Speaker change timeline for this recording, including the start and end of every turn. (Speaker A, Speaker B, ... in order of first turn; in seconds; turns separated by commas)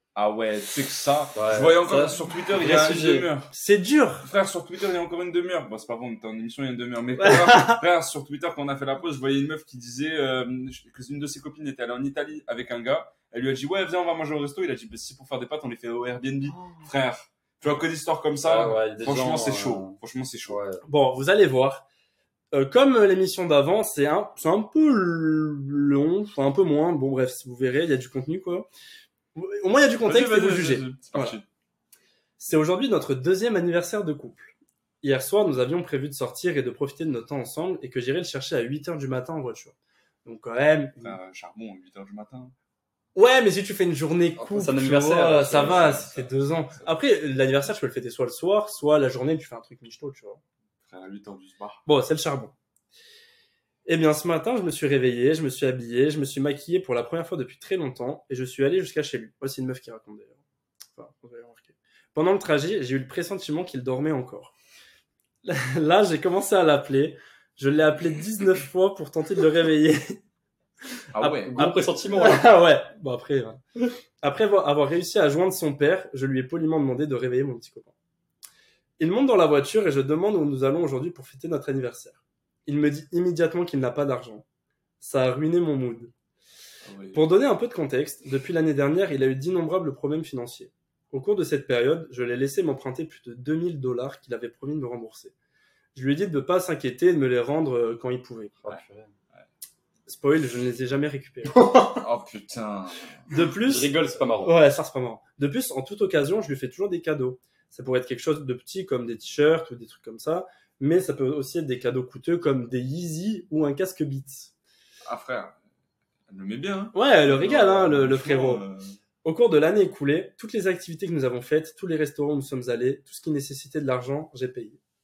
Speaker A: 0.1-3.5, Speaker B: 1.3-3.3, Speaker C: 3.5-4.3, Speaker A: 4.2-20.6, Speaker C: 7.2-7.8, Speaker B: 18.4-19.9, Speaker B: 20.5-20.8, Speaker C: 20.8-21.8, Speaker C: 22.5-28.7, Speaker C: 29.3-31.4, Speaker A: 30.0-31.4, Speaker C: 32.4-41.2, Speaker A: 41.0-42.5, Speaker C: 43.1-50.4, Speaker B: 44.4-46.0, Speaker A: 45.6-46.9, Speaker A: 50.9-51.8, Speaker C: 51.9-52.5, Speaker C: 53.9-60.4, Speaker C: 60.9-64.5, Speaker C: 65.4-70.2, Speaker A: 71.1-71.5, Speaker C: 71.2-73.6, Speaker B: 71.4-72.5, Speaker C: 74.2-77.9, Speaker C: 79.0-84.4, Speaker C: 85.0-86.1, Speaker A: 86.9-87.2, Speaker C: 87.1-95.3, Speaker C: 95.9-98.5, Speaker B: 98.6-99.1, Speaker C: 100.1-102.0, Speaker B: 101.5-101.9, Speaker A: 102.0-103.1, Speaker C: 103.3-103.9, Speaker B: 103.4-104.5, Speaker C: 104.4-114.5, Speaker A: 115.0-115.5, Speaker A: 116.3-119.0, Speaker C: 116.9-118.6, Speaker C: 119.2-124.8